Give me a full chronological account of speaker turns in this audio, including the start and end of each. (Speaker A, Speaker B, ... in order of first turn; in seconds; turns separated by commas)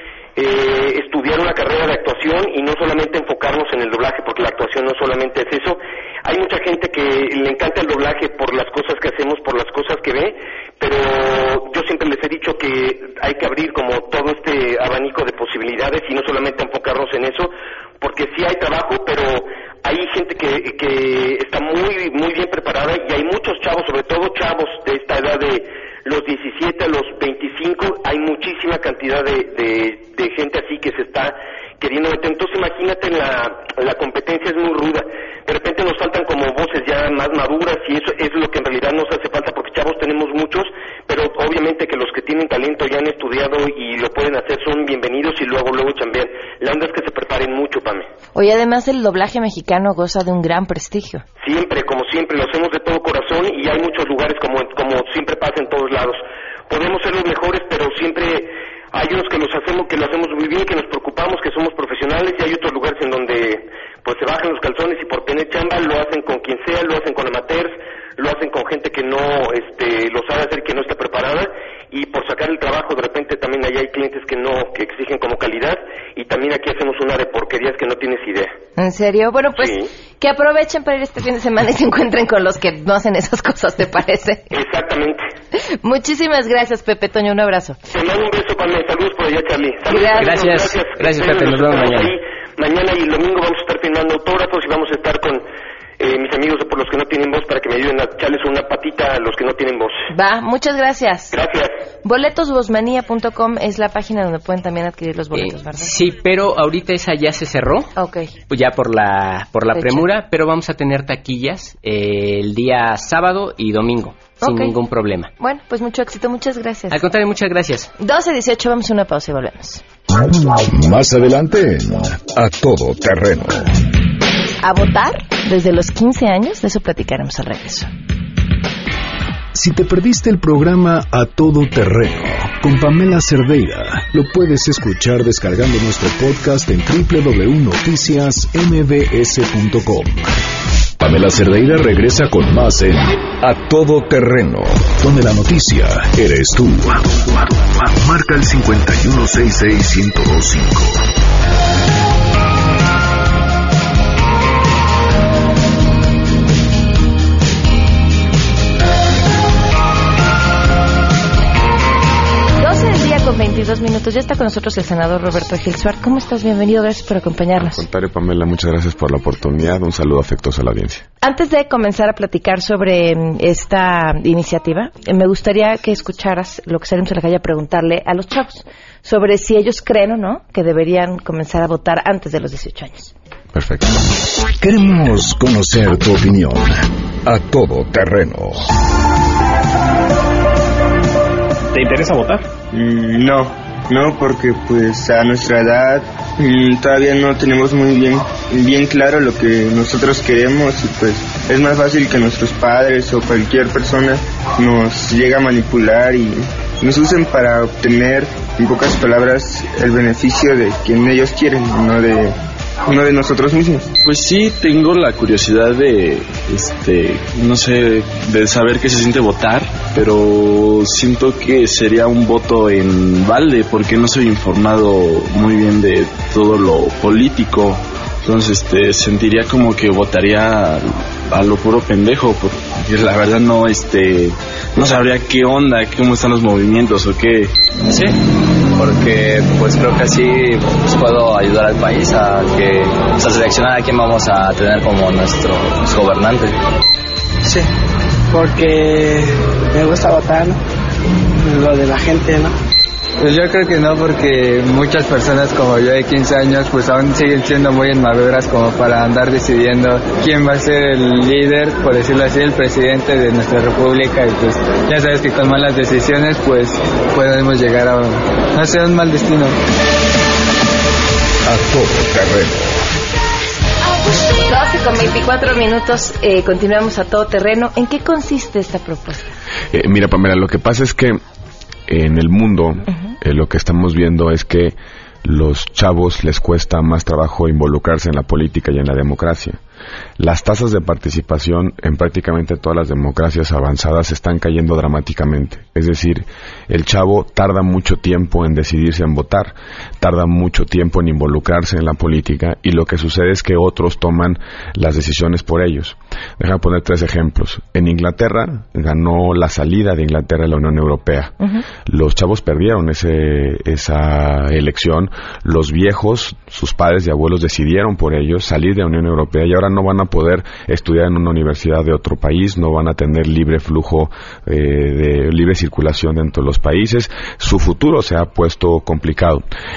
Speaker A: 0.4-48.1, Speaker B: 48.4-51.2, Speaker A: 51.4-78.5, Speaker B: 78.8-84.5, Speaker A: 79.6-79.8, Speaker A: 84.5-85.2, Speaker B: 85.8-87.8, Speaker A: 87.9-95.4, Speaker B: 89.9-90.4, Speaker C: 90.2-92.2, Speaker A: 96.0-100.0, Speaker B: 100.1-101.3, Speaker A: 101.3-101.7, Speaker B: 102.0-106.0, Speaker C: 105.3-107.9, Speaker B: 108.0-108.3, Speaker C: 108.5-115.3, Speaker B: 109.7-110.1, Speaker B: 114.4-114.8, Speaker B: 115.4-117.0, Speaker C: 116.9-117.9, Speaker B: 118.0-119.8, Speaker D: 120.3-123.7, Speaker B: 124.6-127.9, Speaker D: 129.6-140.3, Speaker D: 141.0-151.0, Speaker B: 162.6-167.8, Speaker E: 167.6-171.1, Speaker B: 171.2-183.1, Speaker E: 183.6-183.8, Speaker D: 184.6-188.7, Speaker F: 192.7-212.4, Speaker F: 212.9-213.9, Speaker G: 214.0-237.5, Speaker H: 238.8-246.5, Speaker I: 248.3-250.6, Speaker I: 251.4-252.5, Speaker J: 253.2-269.6, Speaker D: 271.5-272.8, Speaker B: 274.1-279.4, Speaker E: 279.7-281.2, Speaker E: 281.9-289.6, Speaker E: 290.2-311.4, Speaker E: 311.9-329.4